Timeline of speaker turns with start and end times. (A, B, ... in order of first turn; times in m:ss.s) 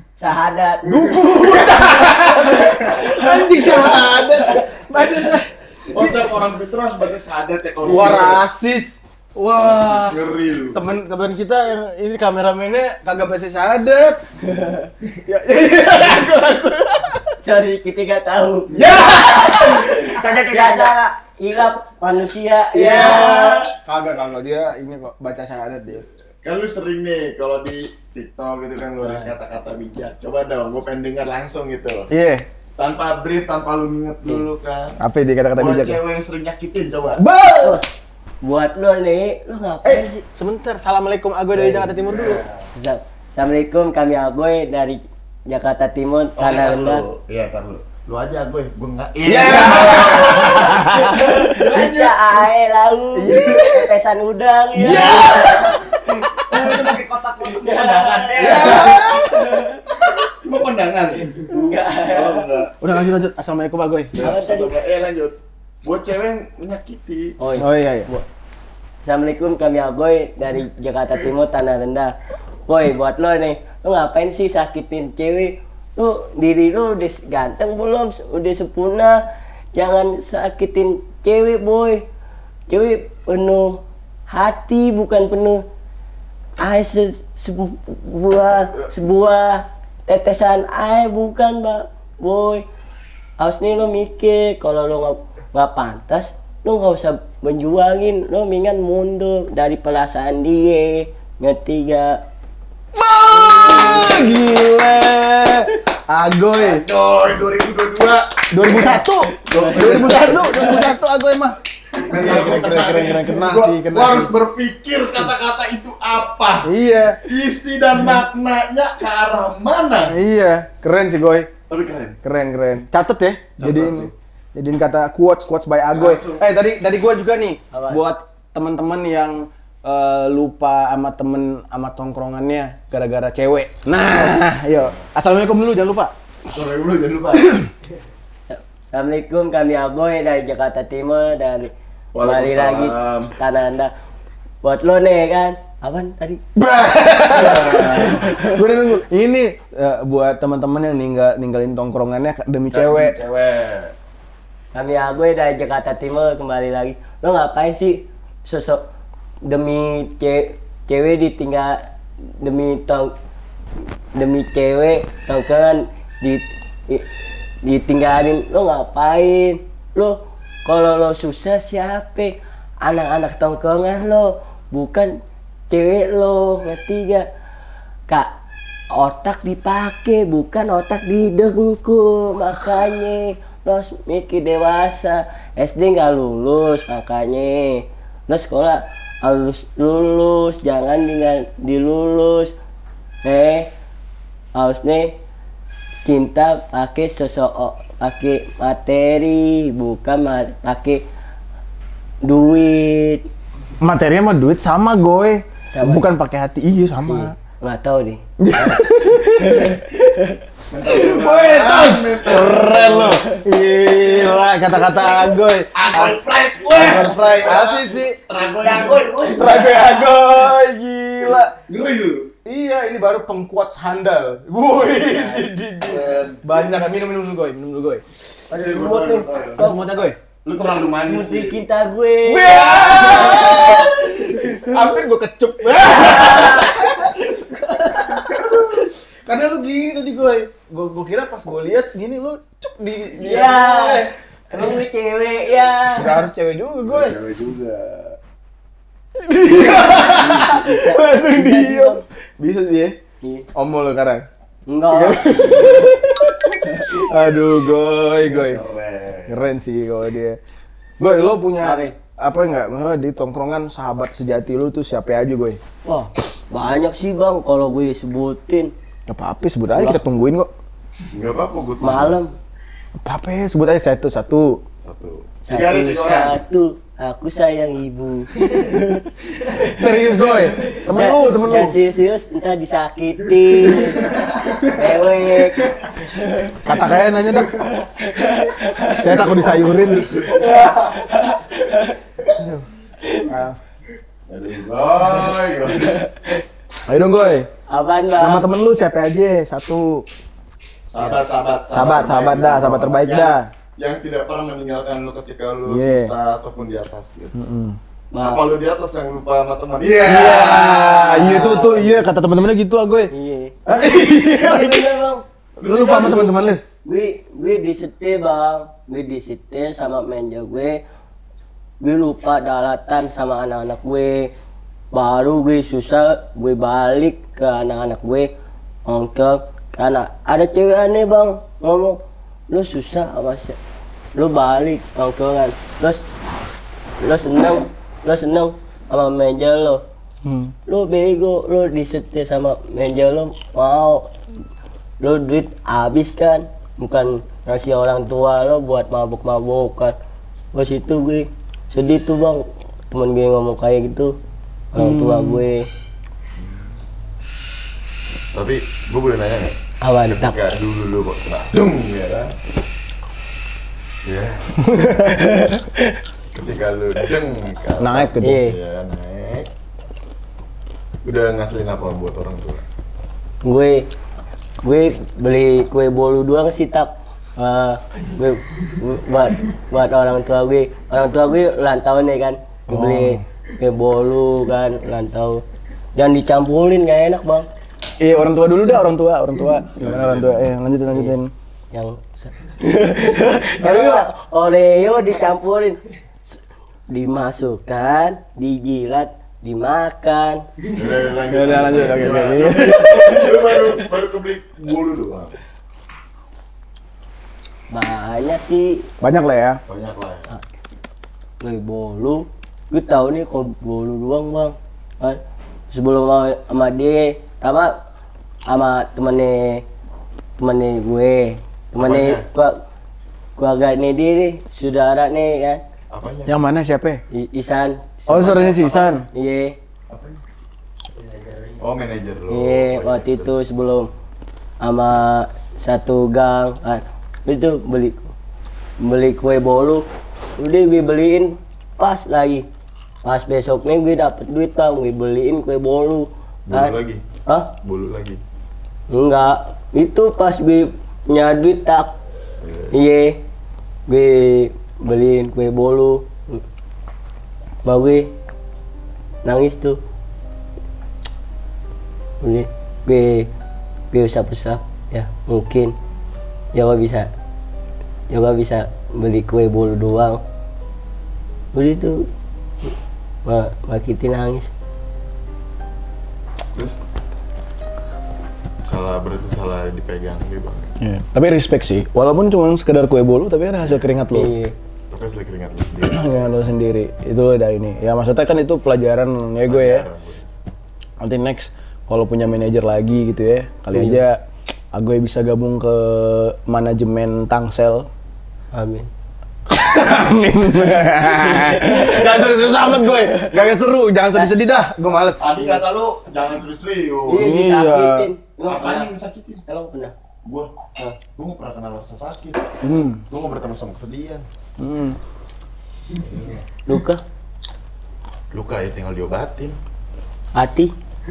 0:00.2-0:04.6 A
0:00.8-0:06.3 B
0:00.9-0:03.0 C
0:05.9-0:08.4 C
0:07.8-0:10.2 B
0:09.6-0:10.8 C
0:10.7-0:14.2 B
0:14.5-0:14.9 A
0:15.2-0:17.2 B
0:17.4-0:23.7 A
0:18.8-0:20.9 B
0:18.8-0:20.7 C
0:22.7-0:26.0 B
0:26.4-0:32.1 C
0:29.0-0:29.3 A
0:32.1-0:32.4 B
0:32.8-0:35.0 C
0:35.0-0:36.0 B
0:35.6-0:37.2 C
0:37.2-0:37.8 B
0:37.6-0:37.9 A
0:38.4-0:40.2 A
0:39.8-0:42.4 B
0:41.7-0:42.6 C
0:42.8-0:47.0 A
0:46.4-0:52.2 C
0:49.2-0:51.3 B
0:51.0-0:56.9 A
0:53.2-0:53.9 B
0:54.8-0:56.9 B
0:56.5-0:59.2 C
0:57.5-0:59.8 A
0:58.4-0:59.4 B
1:00.0-1:01.5 C
1:01.5-1:02.5 A
1:02.0-1:02.8 C
1:02.8-1:04.2 B
1:04.2-1:07.4 C
1:04.2-1:04.7 A
1:07.4-1:08.2 A
1:07.6-1:08.1 B
1:09.0-1:12.2 A
1:12.7-1:22.0 A
1:22.7-1:25.6 A
1:26.6-1:32.6 A
1:33.4-1:42.2 A
1:42.9-1:46.8 B
1:43.3-1:44.6 C
1:46.5-1:50.4 C
1:48.5-1:54.3 B
1:49.5-1:50.9 A
1:52.0-1:56.7 C
1:56.6-1:57.2 B
1:57.2-2:00.2 C
2:00.1-2:01.5 B
2:01.7-2:02.2 C
2:02.2-2:16.1 B
2:03.6-2:04.1 C
2:05.9-2:06.5 C
2:07.7-2:08.0 A
2:16.5-2:17.6 C
2:18.5-2:23.9 A
2:22.2-2:23.4 C
2:24.6-2:26.4 A
2:26.6-2:33.2 B
2:27.3-2:28.6 A
2:27.4-2:27.8 C
2:32.7-2:33.9 C
2:34.7-2:38.8 A
2:39.4-2:41.8 A
2:42.4-2:43.1 A
2:44.2-2:47.1 A
2:47.6-2:55.2 A
2:55.7-2:57.3 A
2:58.9-3:12.6 A
3:13.2-3:13.7 A
3:14.6-3:15.1 A
3:16.0-3:21.0 A
3:22.2-3:23.2 A
3:23.8-3:27.4 B
3:25.7-3:26.1 A
3:27.0-3:28.2 A
3:28.4-3:29.7 B
3:29.4-3:30.4 A
3:30.7-3:33.2 C
3:30.8-3:36.2 B
3:35.7-3:40.0 C
3:36.7-3:38.2 B
3:39.3-3:41.5 B
3:41.6-3:42.3 C
3:42.4-3:48.2 B
3:45.8-3:46.4 C
3:48.5-3:49.9 A
3:48.5-3:49.7 C
3:49.6-3:50.2 B
3:50.4-3:51.6 C
3:51.1-3:54.6 A
3:52.3-4:04.7 B
3:52.4-3:53.9 C
3:55.9-3:56.8 A
3:58.3-3:58.8 C
4:03.2-4:06.2 A
4:05.9-4:07.2 B
4:06.8-4:08.2 C
4:09.2-4:13.0 B
4:09.8-4:12.0 A
4:13.6-4:14.3 B
4:14.7-4:15.9 A
4:14.9-4:16.4 B
4:16.5-4:16.9 A
4:16.9-4:18.6 B
4:18.4-4:19.5 C
4:19.3-4:20.4 B
4:21.0-4:25.6 B
4:21.6-4:21.9 A
4:25.8-4:28.7 A
4:29.1-4:30.5 B
4:29.8-4:30.0 A
4:31.1-4:32.2 C
4:31.8-4:32.3 A
4:33.0-4:34.6 B
4:34.8-4:36.4 C
4:35.5-4:46.6 A
4:39.7-4:41.8 B
4:43.7-4:44.8 C
4:46.6-4:47.6 B
4:47.6-4:49.1 A
4:48.9-4:50.7 C
4:48.9-4:50.5 B
4:50.4-4:52.0 A
4:52.4-4:52.7 B
4:53.2-4:53.6 B
4:54.3-4:56.0 C
4:55.8-4:56.1 A
4:56.9-4:57.5 B
4:57.7-4:58.5 A
4:58.2-5:00.1 B
5:00.9-5:07.4 C
5:01.7-5:03.5 B
5:05.7-5:06.1 B
5:07.4-5:07.8 B
5:08.1-5:08.5 A
5:08.2-5:11.9 C
5:10.0-5:13.1 B
5:10.0-5:12.0 A
5:13.1-5:15.2 A
5:13.7-5:14.9 B
5:15.6-5:16.4 C
5:15.6-5:16.6 B
5:15.8-5:16.3 A
5:16.8-5:20.8 A
5:21.8-5:24.3 A
5:24.9-5:28.3 A
5:28.9-5:33.6 A
5:34.2-5:36.0 A
5:37.0-5:39.8 A
5:40.2-5:40.5 B
5:40.7-5:44.1 A
5:45.0-5:49.9 A
5:50.5-5:54.2 A
5:54.7-5:55.7 A
5:54.8-5:55.4 B
5:58.3-6:02.3 C
5:59.8-6:00.4 A
6:04.0-6:04.5 C
6:04.6-6:05.3 B
6:05.2-6:05.6 A
6:06.3-6:09.5 C
6:07.8-6:08.4 B
6:08.2-6:08.6 A
6:11.0-6:12.6 C
6:13.4-6:13.9 A
6:14.6-6:25.4 A
6:22.7-6:23.2 B
6:26.0-6:27.5 A
6:28.0-6:31.3 B
6:29.8-6:30.4 C
6:31.7-6:35.8 A
6:33.6-6:34.1 B
6:36.9-6:40.4 A
6:40.7-6:45.4 C
6:41.3-6:43.1 B
6:42.7-6:43.3 A
6:47.7-6:48.9 A
6:49.0-6:49.6 B
6:49.7-6:50.4 C
6:51.4-6:55.2 A
6:55.7-6:57.8 A
6:58.5-6:59.6 A
7:00.4-7:02.6 A
7:01.8-7:02.2 C
7:03.4-7:05.6 A
7:05.9-7:06.4 C
7:06.3-7:07.0 B
7:07.1-7:09.6 A
7:08.1-7:09.1 B
7:08.2-7:08.7 C
7:09.9-7:10.2 C
7:11.6-7:13.3 C
7:12.3-7:13.9 A
7:14.6-7:18.1 A
7:18.8-7:19.9 A
7:20.4-7:22.4 A
7:23.0-7:26.7 A
7:26.5-7:27.0 C
7:27.3-7:27.5 A
7:27.6-7:28.2 C
7:28.9-7:31.9 A
7:32.4-7:32.8 C
7:32.7-7:33.2 A
7:33.9-7:36.4 A
7:37.6-7:38.1 A
7:39.2-7:39.8 A
7:42.2-7:43.3 A
7:43.9-7:45.7 A
7:46.5-7:47.1 A
7:48.1-7:50.2 A
7:51.5-7:52.1 A
7:53.2-7:54.5 A
7:58.7-8:00.8 C
8:00.8-8:04.3 B
8:04.1-8:04.6 A
8:04.9-8:06.1 C
8:05.9-8:09.9 B
8:09.4-8:10.3 C
8:11.0-8:17.9 B
8:13.7-8:14.0 A
8:18.5-8:18.9 A
8:19.5-8:25.6 B
8:21.0-8:23.4 A
8:25.1-8:27.2 C
8:27.1-8:28.9 A
8:27.1-8:28.1 B
8:28.5-8:29.4 C
8:29.5-8:29.9 A
8:30.2-8:30.5 C
8:31.2-8:32.5 C
8:32.6-8:33.0 B
8:33.1-8:34.2 C
8:34.6-8:35.0 B
8:36.0-8:36.4 C
8:36.6-8:37.0 A
8:38.3-8:39.6 C
8:40.4-8:40.7 A